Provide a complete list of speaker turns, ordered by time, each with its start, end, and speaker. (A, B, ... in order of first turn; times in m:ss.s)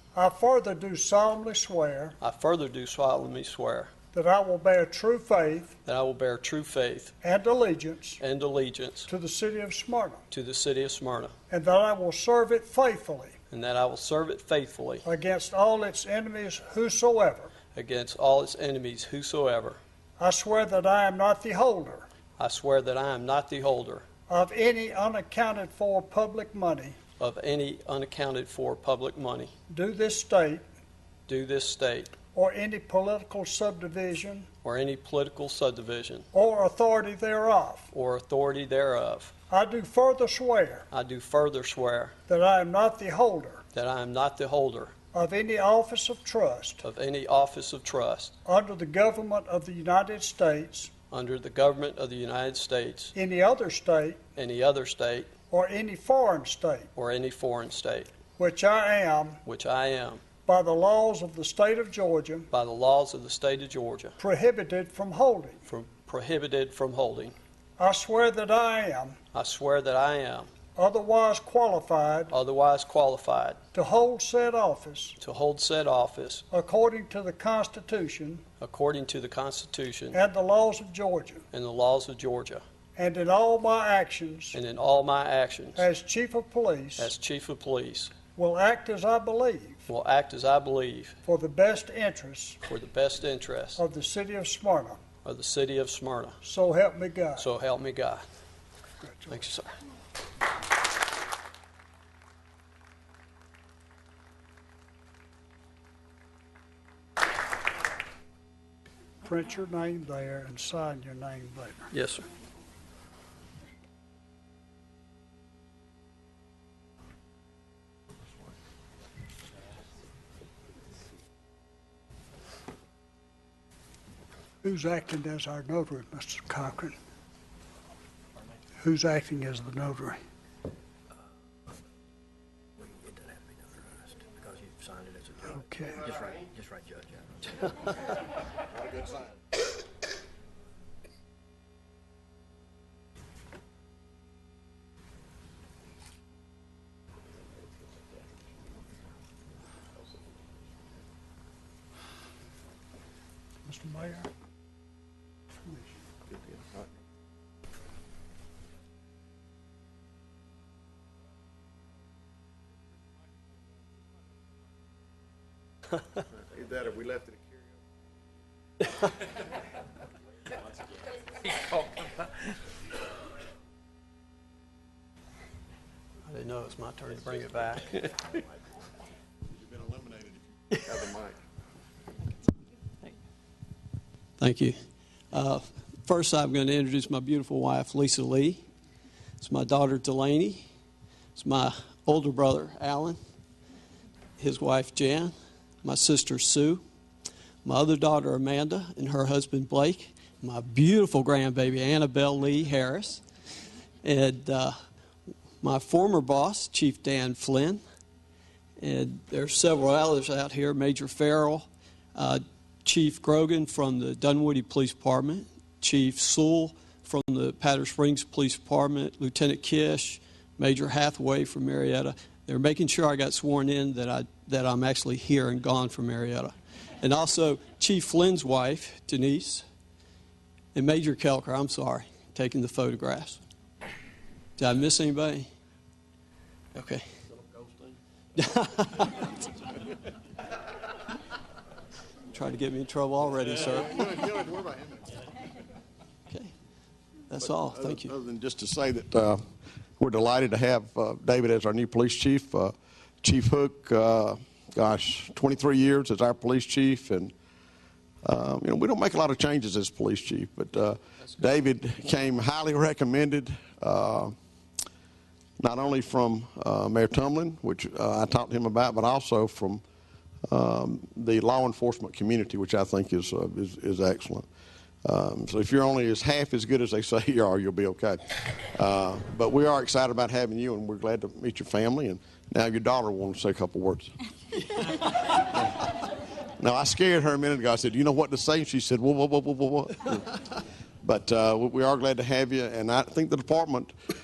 0:00.2-0:02.2 A
0:02.2-0:03.9 B
0:04.1-0:05.8 A
0:05.8-0:07.1 B
0:07.2-0:08.2 A
0:08.2-0:09.1 B
0:09.1-0:10.2 A
0:10.3-0:11.3 B
0:11.5-0:13.4 A
0:13.5-0:15.0 B
0:15.0-0:17.5 A
0:17.8-0:19.8 B
0:20.2-0:22.1 A
0:22.4-0:24.0 B
0:24.3-0:27.0 A
0:27.2-0:29.5 B
0:29.7-0:30.6 A
0:31.3-0:32.1 B
0:32.3-0:34.5 A
0:34.6-0:36.3 B
0:36.3-0:37.9 A
0:37.9-0:39.3 B
0:39.5-0:40.9 A
0:40.9-0:42.2 B
0:42.3-0:43.6 A
0:43.7-0:44.9 B
0:45.1-0:46.8 A
0:46.8-0:48.4 B
0:48.4-0:50.9 A
0:51.1-0:53.1 B
0:53.2-0:54.2 A
0:54.4-0:55.3 B
0:55.5-0:56.9 A
0:57.0-0:58.1 B
0:58.4-0:59.4 A
0:59.4-1:00.2 B
1:00.5-1:02.5 A
1:02.5-1:04.2 B
1:04.2-1:05.6 A
1:05.7-1:07.4 B
1:07.8-1:09.2 A
1:09.3-1:10.5 B
1:10.8-1:12.3 A
1:12.3-1:13.6 B
1:13.7-1:15.2 A
1:15.2-1:16.4 B
1:16.5-1:18.4 A
1:18.6-1:20.2 B
1:20.1-1:21.4 A
1:21.5-1:22.6 B
1:23.0-1:24.6 A
1:24.5-1:25.8 B
1:25.8-1:27.1 A
1:27.0-1:28.2 B
1:28.4-1:29.9 A
1:29.9-1:31.2 B
1:31.2-1:32.6 A
1:32.6-1:33.8 B
1:33.8-1:35.0 A
1:35.2-1:36.4 B
1:36.4-1:37.5 A
1:37.4-1:38.2 B
1:39.0-1:39.4 A
1:39.3-1:39.7 B
1:49.2-1:51.9 A
1:51.9-1:52.2 B
2:04.6-2:07.0 A
2:08.8-2:10.2 A
2:12.8-2:17.7 C
2:15.5-2:16.1 A
2:33.6-2:34.3 A
2:35.6-2:36.0 A
2:36.3-2:36.9 D
2:46.4-2:47.6 D
2:56.3-2:58.2 B
2:59.5-3:01.4 D
3:04.4-3:04.8 B
3:05.3-3:08.6 B
3:09.4-3:10.7 B
3:11.4-3:13.2 B
3:14.4-3:16.8 B
3:17.6-3:23.2 B
3:24.0-3:24.8 B
3:25.6-3:27.8 B
3:28.8-3:49.6 B
3:50.8-3:53.4 B
3:54.6-3:55.5 B
3:56.7-3:57.1 B
3:57.3-3:58.0 D
3:58.4-3:59.4 B
4:02.3-4:04.1 B
4:03.7-4:05.2 D
4:07.3-4:08.1 B
4:07.4-4:09.4 D
4:10.0-4:17.3 D
4:18.2-4:24.4 D
4:25.6-4:29.8 D
4:30.5-4:34.5 D
4:35.0-4:44.1 D
4:45.4-4:45.8 D
4:46.6-4:50.4 D
4:51.0-4:53.9 D